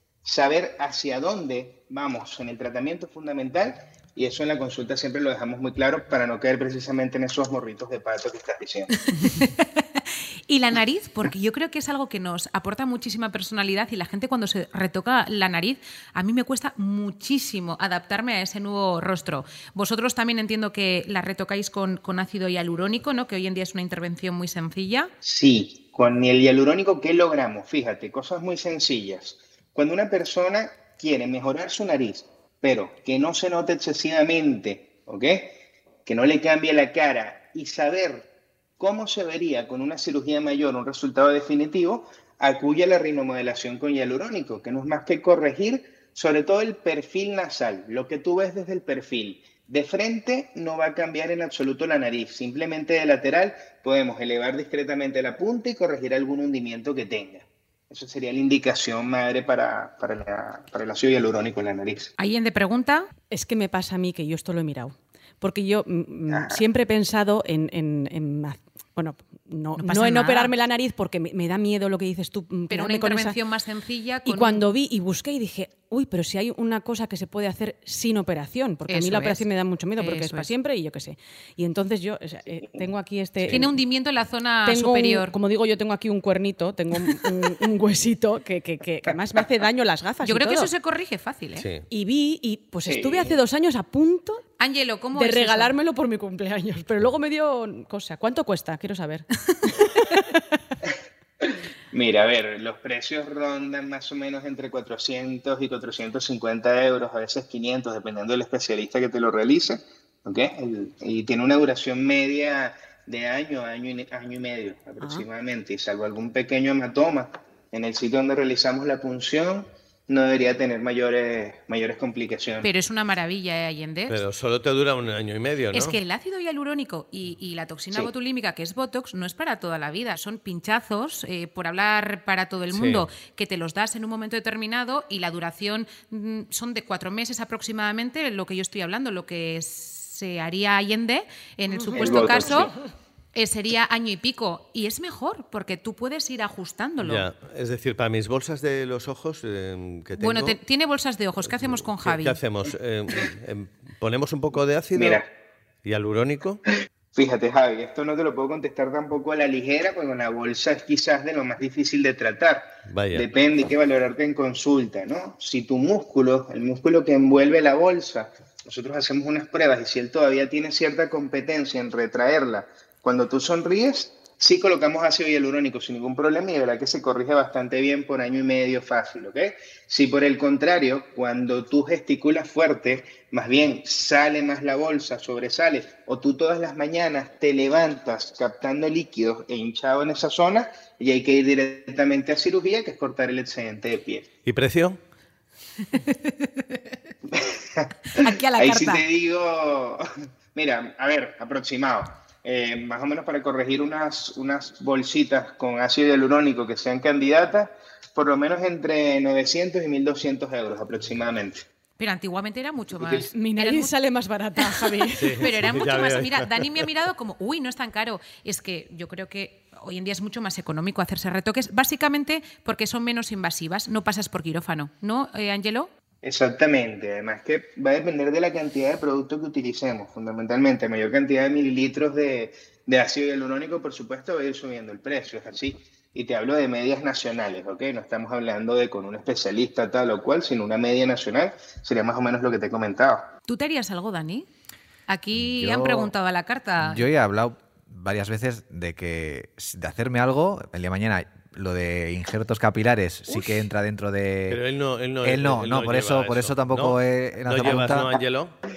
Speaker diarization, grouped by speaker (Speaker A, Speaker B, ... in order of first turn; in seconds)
Speaker A: 0.2-8.9, 25.2-62.1, 66.3-66.6, 92.8-93.4, 101.4-122.7, 141.9-142.7, 154.9-155.3, 157.1-194.3, 197.3-200.0, 200.5-211.6, 212.9-213.3, 226.2-243.3
Speaker B: 9.1-25.1, 62.2-63.1, 69.8-70.5, 72.7-74.7, 78.9-80.5, 83.5-85.3, 90.2-91.7, 94.6-95.7, 122.6-124.2, 125.7-142.7, 143.3-147.3, 150.2-152.4, 195.9-196.8, 198.2-199.0, 212.0-213.9, 214.6-225.9, 243.5-244.5, 245.1-247.1, 253.3-253.7
Speaker C: 63.3-73.4, 74.2-83.7, 84.7-90.7, 91.9-94.4, 95.1-100.6, 213.3-215.5
Speaker D: 91.6-91.9, 124.1-126.0, 132.7-133.1, 147.0-150.6, 151.5-155.2, 155.8-156.6, 162.9-163.3, 194.4-195.0, 215.1-216.7, 254.5-258.5
Speaker E: 245.3-246.1, 246.8-254.6, 255.2-258.1